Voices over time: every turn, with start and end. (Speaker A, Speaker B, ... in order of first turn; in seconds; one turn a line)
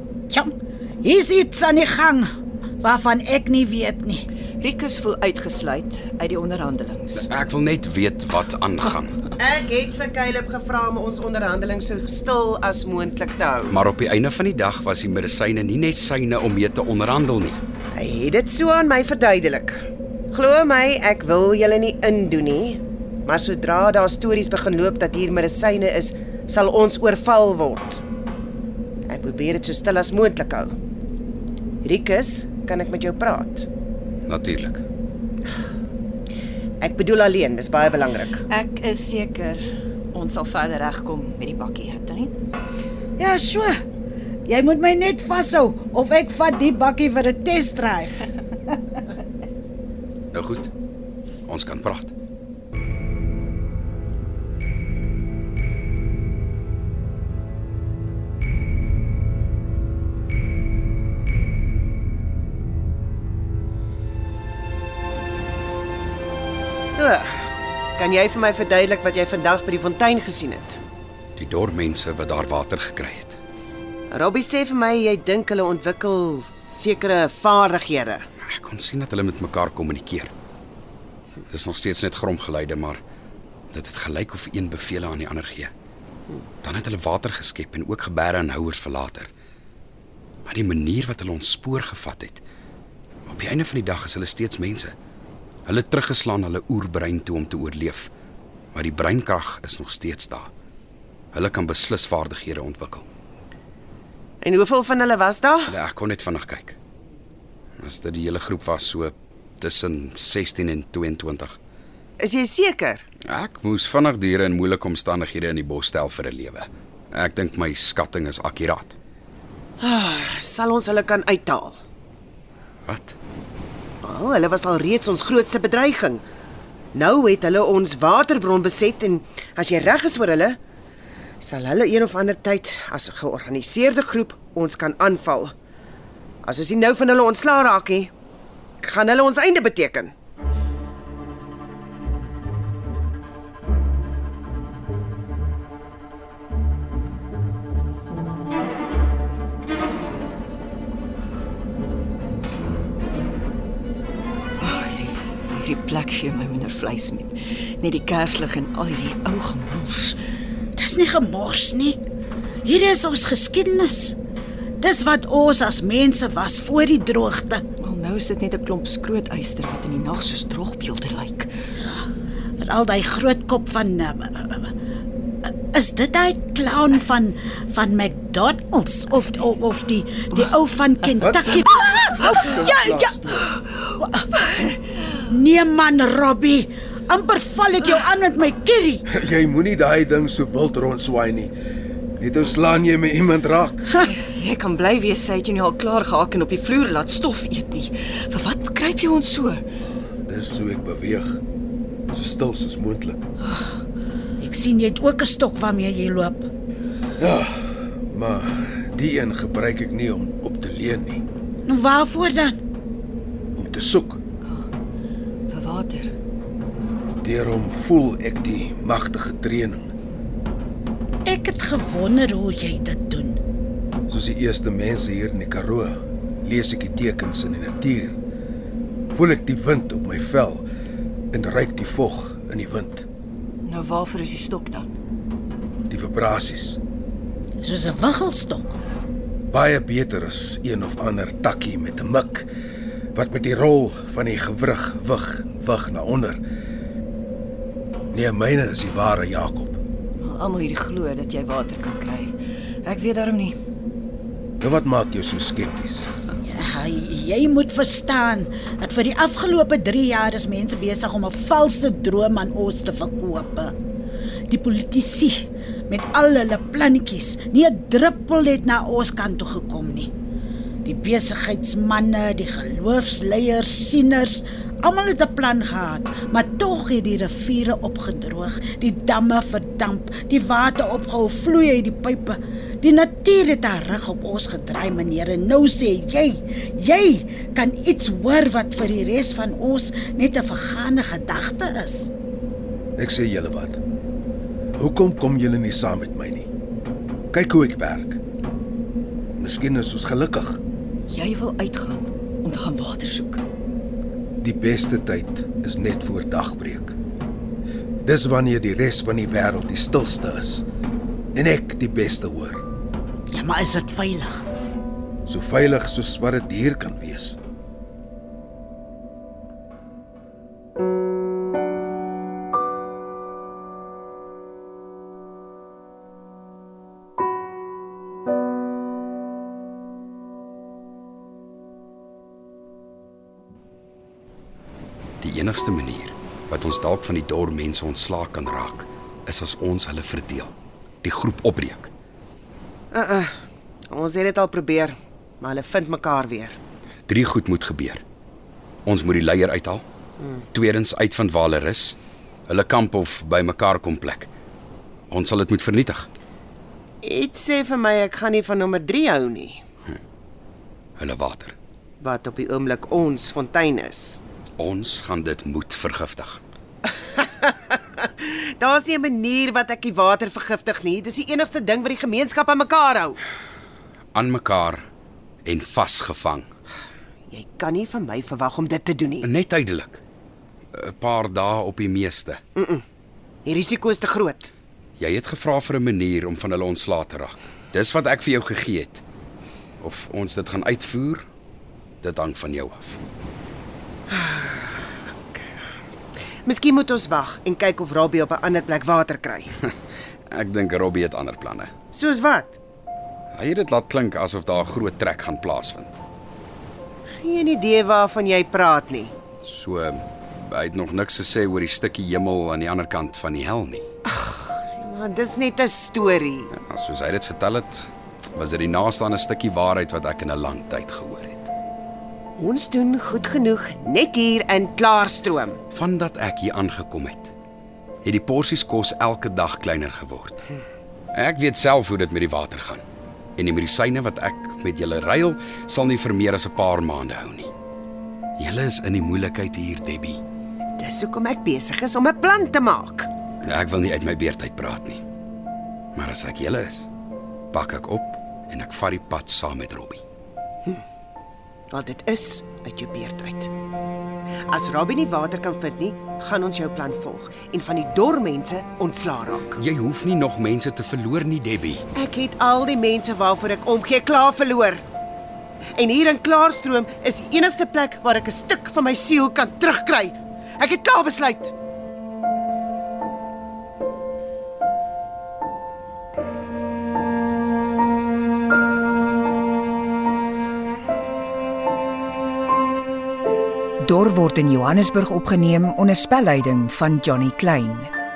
Speaker A: 1.0-2.3
Speaker A: 2.8-4.3
Speaker B: 4.6-7.3
Speaker C: 7.2-9.2
Speaker D: 9.4-13.8
Speaker C: 13.7-17.6
Speaker D: 17.9-19.8
Speaker D: 20.3-28.0
Speaker D: 29.1-30.7
Speaker D: 31.8-33.7
Speaker C: 34.3-34.8
Speaker D: 36.8-38.5
Speaker B: 38.5-42.3
Speaker A: 43.2-43.8
Speaker A: 44.5-48.2
Speaker C: 50.3-50.7
Speaker C: 51.5-52.1
Speaker D: 67.0-67.3
Speaker D: 68.0-70.8
Speaker C: 71.4-73.4
Speaker D: 74.1-78.2
Speaker C: 78.4-80.3
Speaker C: 81.5-83.0
Speaker C: 83.7-85.7
Speaker C: 86.6-89.3
Speaker C: 90.5-92.4
Speaker C: 93.3-94.9
Speaker C: 95.7-98.1
Speaker C: 98.7-100.5
Speaker C: 101.3-103.0
Speaker D: 104.4-105.7
Speaker C: 105.7-106.8
Speaker C: 107.8-111.6
Speaker D: 112.2-113.0
Speaker C: 113.3-119.0
Speaker D: 119.8-121.8
Speaker C: 122.9-123.2
Speaker D: 124.0-126.2
Speaker D: 127.0-130.6
Speaker D: 131.4-135.5
Speaker D: 136.4-138.1
Speaker D: 138.8-140.1
Speaker B: 154.6-160.2
Speaker A: 160.8-162.0
Speaker A: 162.7-164.2
Speaker A: 164.8-167.6
Speaker B: 167.8-171.5
Speaker A: 172.6-174.7
Speaker A: 175.7-183.2
Speaker E: 181.2-183.5
Speaker A: 184.0-189.0
Speaker E: 189.1-191.5
Speaker E: 192.2-193.8
Speaker B: 194.1-199.6
Speaker E: 200.3-201.4
Speaker E: 202.1-203.3
Speaker A: 204.4-206.4
Speaker E: 207.2-211.2
Speaker A: 211.7-212.6
Speaker E: 213.6-214.2
Speaker B: 215.5-216.1
Speaker E: 217.2-219.9
Speaker A: 221.2-223.4
Speaker E: 224.1-228.2
Speaker E: 229.1-230.6
Speaker E: 231.3-233.1
Speaker B: 233.6-234.9
Speaker E: 235.9-236.8
Speaker A: 237.6-238.8
Speaker E: 239.5-242.5
Speaker E: 243.2-246.4
Speaker E: 248.1-249.8
Speaker B: 250.2-252.3
Speaker B: 252.8-253.6
Speaker E: 254.6-256.1
Speaker A: 256.5-263.8
Speaker A: 264.5-270.1
Speaker A: 270.9-292.1
Speaker E: 293.0-293.8
Speaker E: 294.8-296.5
Speaker E: 297.3-298.2
Speaker E: 299.4-300.6
Speaker B: 301.1-303.4
Speaker E: 304.4-307.0
Speaker E: 308.0-310.6
Speaker E: 311.4-312.6
Speaker A: 313.3-314.4
Speaker E: 315.3-317.4
Speaker C: 335.2-341.9
Speaker D: 342.9-343.3
Speaker D: 343.9-346.6
Speaker C: 347.1-348.0
Speaker C: 348.9-349.8
Speaker D: 350.2-350.4
Speaker C: 350.5-352.0
Speaker C: 352.5-354.3
Speaker C: 355.1-356.1
Speaker D: 357.0-359.6
Speaker C: 361.0-361.6
Speaker D: 362.0-364.2
Speaker C: 364.6-366.4
Speaker D: 367.1-373.2
Speaker C: 374.1-374.9
Speaker C: 375.4-376.5
Speaker D: 377.3-379.3
Speaker C: 379.2-380.0
Speaker C: 380.7-382.4
Speaker D: 382.6-382.8
Speaker D: 383.5-384.5
Speaker C: 385.0-389.0
Speaker C: 389.8-391.3
Speaker C: 392.0-393.0
Speaker D: 394.1-395.5
Speaker D: 396.4-399.5
Speaker C: 400.3-401.7
Speaker D: 401.9-402.6
Speaker C: 403.3-406.0
Speaker D: 407.2-409.1
Speaker C: 409.4-413.9
Speaker D: 414.1-416.5
Speaker C: 416.5-421.5
Speaker D: 422.4-425.6
Speaker C: 425.7-427.3
Speaker C: 428.0-430.5
Speaker C: 431.1-432.8
Speaker C: 433.4-437.5
Speaker C: 438.4-440.2
Speaker D: 440.8-443.1
Speaker C: 443.4-445.0
Speaker C: 445.9-446.9
Speaker C: 447.5-450.0
Speaker D: 451.7-453.5
Speaker D: 454.5-459.6
Speaker C: 459.6-461.8
Speaker D: 461.9-464.8
Speaker D: 465.8-471.5
Speaker F: 483.8-487.9